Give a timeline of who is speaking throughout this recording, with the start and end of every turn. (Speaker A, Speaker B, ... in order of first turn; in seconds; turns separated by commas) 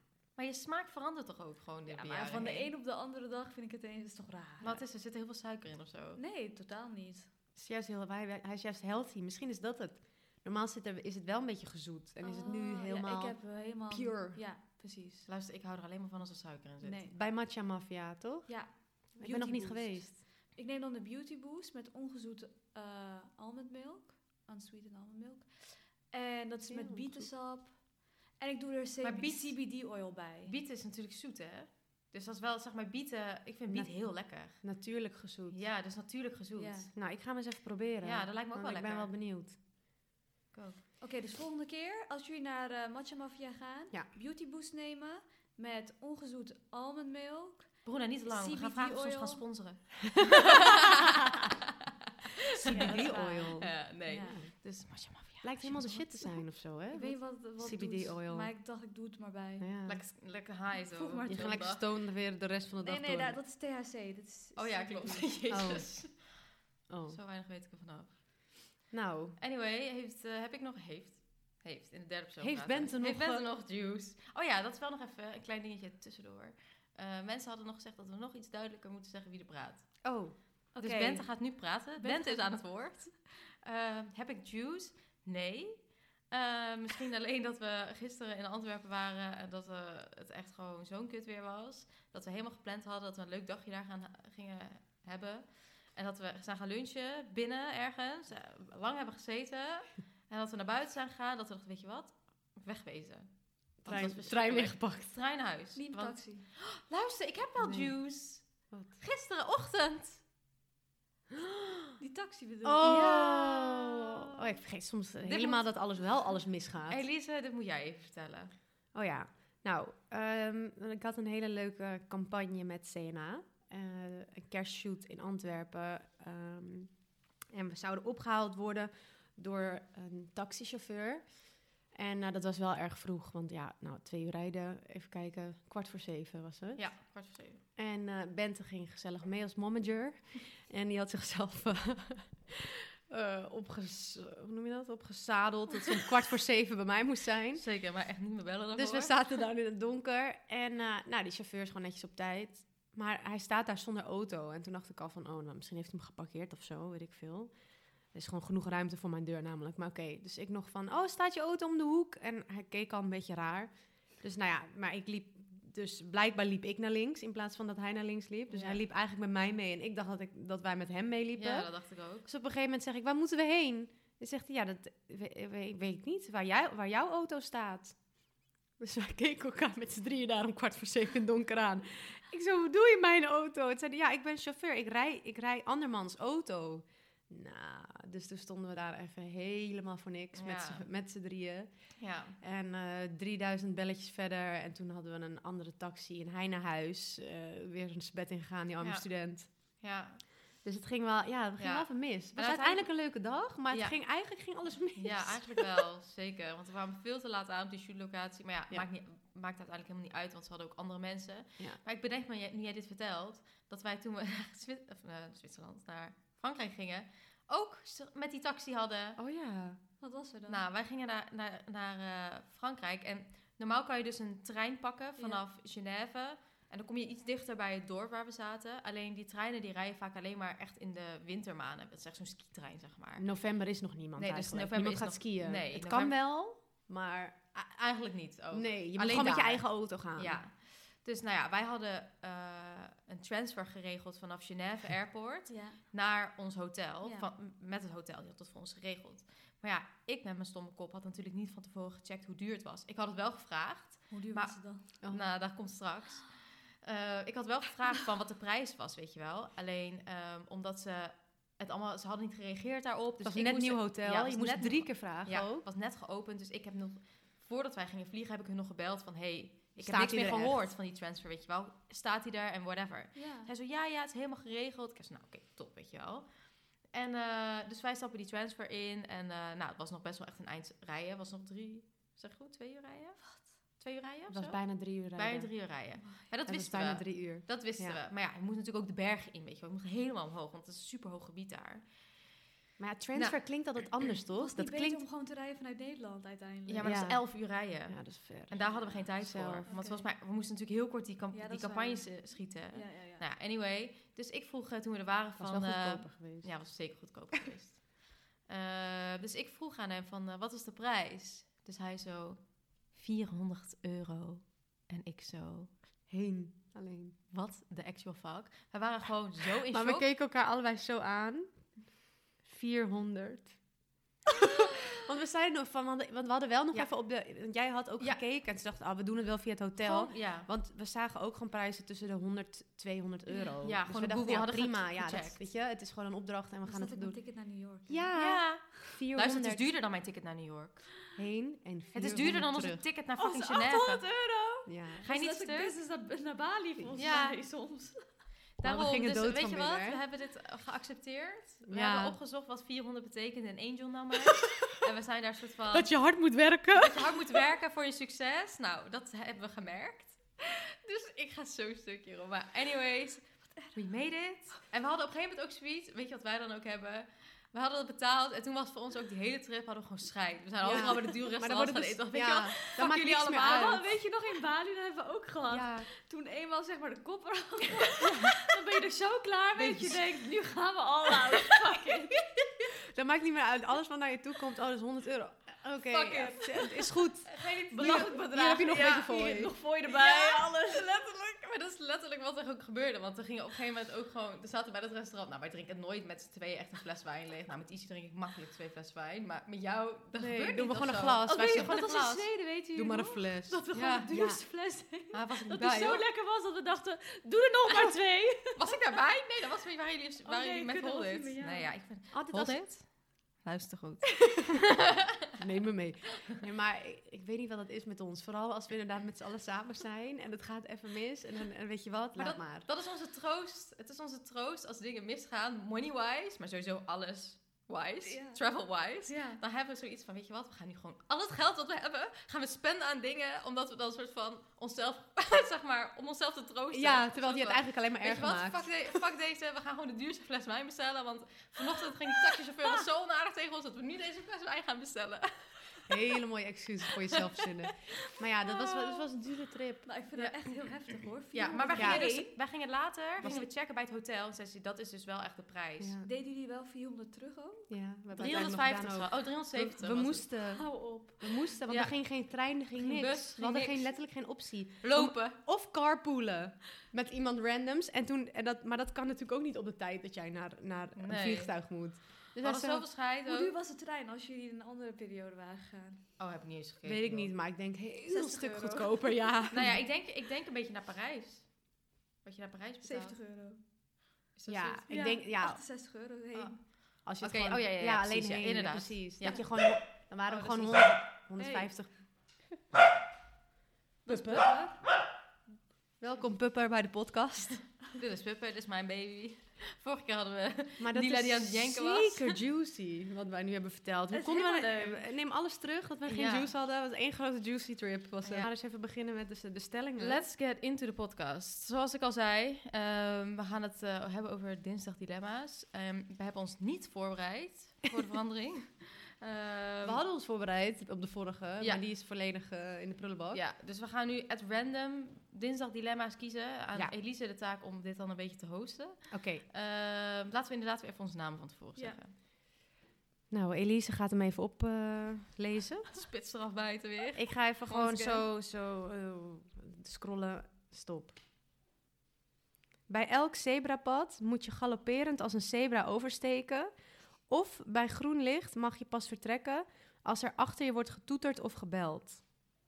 Speaker A: 0.4-2.7, Speaker B: 1.9-4.8, Speaker A: 4.6-6.2, Speaker B: 6.2-7.3, Speaker C: 7.6-14.4, Speaker B: 12.2-15.3, Speaker A: 15.3-17.0, Speaker B: 16.8-17.1, Speaker C: 17.1-18.6, Speaker B: 18.5-30.5, Speaker C: 19.1-20.2, Speaker C: 26.7-27.3, Speaker A: 29.0-29.6, Speaker A: 30.4-34.7, Speaker C: 33.7-35.6, Speaker A: 35.5-36.9, Speaker B: 36.6-36.9, Speaker C: 37.0-39.6, Speaker A: 38.0-39.1, Speaker A: 40.5-40.8, Speaker B: 41.0-49.5, Speaker A: 47.9-51.5, Speaker B: 50.4-51.2, Speaker C: 52.6-54.5, Speaker B: 52.6-54.4, Speaker A: 52.7-56.1, Speaker C: 55.4-58.5, Speaker B: 56.9-59.7, Speaker C: 59.6-60.0, Speaker A: 59.9-61.8, Speaker B: 60.9-61.5, Speaker C: 61.3-63.4, Speaker B: 62.8-65.3, Speaker A: 64.6-66.2, Speaker C: 65.5-65.9, Speaker C: 66.9-67.2, Speaker A: 67.1-68.7, Speaker C: 68.9-69.4, Speaker A: 69.4-80.0, Speaker C: 72.4-73.5, Speaker C: 80.0-80.4, Speaker B: 80.8-81.3, Speaker A: 80.8-108.5, Speaker B: 82.0-82.6, Speaker C: 103.8-105.1, Speaker B: 105.8-106.5, Speaker C: 107.6-107.9, Speaker A: 109.0-110.2, Speaker B: 112.0-113.7, Speaker C: 112.6-117.0, Speaker A: 112.8-113.8, Speaker A: 115.2-115.6, Speaker A: 116.9-118.5, Speaker C: 118.9-126.9, Speaker C: 127.5-131.4, Speaker C: 131.9-136.9, Speaker A: 136.8-137.6, Speaker C: 137.8-147.6, Speaker A: 147.6-149.2, Speaker C: 148.8-157.5, Speaker C: 158.1-171.7, Speaker A: 168.5-168.8, Speaker A: 171.3-172.3, Speaker C: 172.2-178.0, Speaker C: 178.8-191.7, Speaker A: 190.3-190.8, Speaker A: 192.0-192.4, Speaker C: 192.4-199.5, Speaker A: 198.8-199.1, Speaker A: 199.8-200.2, Speaker C: 200.7-205.8, Speaker A: 201.6-202.9, Speaker A: 203.7-204.0, Speaker A: 205.0-219.2, Speaker C: 219.2-219.8, Speaker B: 220.0-220.6, Speaker A: 220.5-233.2, Speaker C: 233.2-237.4, Speaker A: 234.2-236.2, Speaker A: 237.6-239.7, Speaker C: 238.5-240.4, Speaker A: 240.2-256.3, Speaker B: 245.5-245.8, Speaker B: 247.0-247.3, Speaker B: 254.1-254.9, Speaker A: 256.8-276.3, Speaker C: 263.2-265.6, Speaker C: 269.8-270.6, Speaker B: 273.1-273.5, Speaker A: 276.9-291.9, Speaker B: 283.2-283.6, Speaker C: 284.3-285.5, Speaker C: 286.5-288.0, Speaker C: 292.8-295.0, Speaker B: 294.4-297.0, Speaker A: 296.7-312.4, Speaker C: 296.8-299.7, Speaker B: 299.7-300.1, Speaker B: 301.3-303.2, Speaker C: 305.4-306.5, Speaker A: 312.9-315.7, Speaker C: 316.1-317.2, Speaker A: 317.3-320.1, Speaker C: 319.7-321.5, Speaker C: 322.4-323.5, Speaker C: 324.3-337.2, Speaker A: 329.8-330.5, Speaker A: 333.6-335.4, Speaker B: 336.6-338.1, Speaker C: 337.9-339.7, Speaker A: 338.1-340.9, Speaker C: 341.1-342.8, Speaker A: 341.9-344.1, Speaker B: 343.2-348.1, Speaker C: 344.7-345.1, Speaker A: 345.1-345.8, Speaker A: 347.0-347.4, Speaker A: 348.6-355.9, Speaker C: 348.6-350.0, Speaker C: 351.7-352.2, Speaker C: 355.7-357.4, Speaker A: 356.7-373.8, Speaker C: 370.6-373.9, Speaker B: 372.8-382.2, Speaker C: 375.5-375.9, Speaker A: 379.6-379.9, Speaker C: 382.9-389.5, Speaker A: 385.9-389.1, Speaker B: 387.7-390.9, Speaker A: 389.8-402.3, Speaker C: 400.2-401.9, Speaker B: 401.3-408.6, Speaker C: 402.8-404.4, Speaker A: 405.1-406.0, Speaker A: 408.5-415.2, Speaker B: 410.2-411.7, Speaker C: 412.1-412.6, Speaker C: 415.4-422.7, Speaker A: 422.2-445.9, Speaker B: 428.0-428.4, Speaker B: 429.1-429.4, Speaker C: 436.7-439.0, Speaker C: 445.9-449.9, Speaker A: 447.1-447.4, Speaker B: 449.9-452.4, Speaker A: 451.3-455.9, Speaker C: 451.8-452.1, Speaker C: 453.2-453.5, Speaker C: 455.8-456.1, Speaker B: 456.0-457.7, Speaker C: 457.7-472.9, Speaker A: 458.1-460.3, Speaker B: 460.5-461.4, Speaker A: 461.7-462.0, Speaker A: 462.8-463.9, Speaker A: 464.8-465.4, Speaker A: 471.0-471.5, Speaker A: 472.4-473.6, Speaker B: 473.3-476.0, Speaker A: 476.2-477.3, Speaker C: 476.8-479.8, Speaker B: 478.1-479.1, Speaker A: 479.5-483.2, Speaker B: 482.8-483.6, Speaker A: 484.4-484.9, Speaker C: 484.5-485.6, Speaker B: 484.9-486.6, Speaker A: 486.3-491.0, Speaker C: 487.1-491.9, Speaker B: 491.4-491.7, Speaker B: 494.1-494.8, Speaker C: 494.1-494.5, Speaker C: 496.0-497.6, Speaker A: 497.9-502.4, Speaker C: 500.8-510.2, Speaker B: 504.1-505.0, Speaker A: 506.1-506.5, Speaker A: 510.0-520.0, Speaker C: 519.8-523.4, Speaker A: 523.3-532.1, Speaker C: 529.1-529.5, Speaker C: 533.3-535.9, Speaker A: 535.9-538.2, Speaker C: 537.1-541.2, Speaker C: 542.9-546.7, Speaker C: 547.3-552.2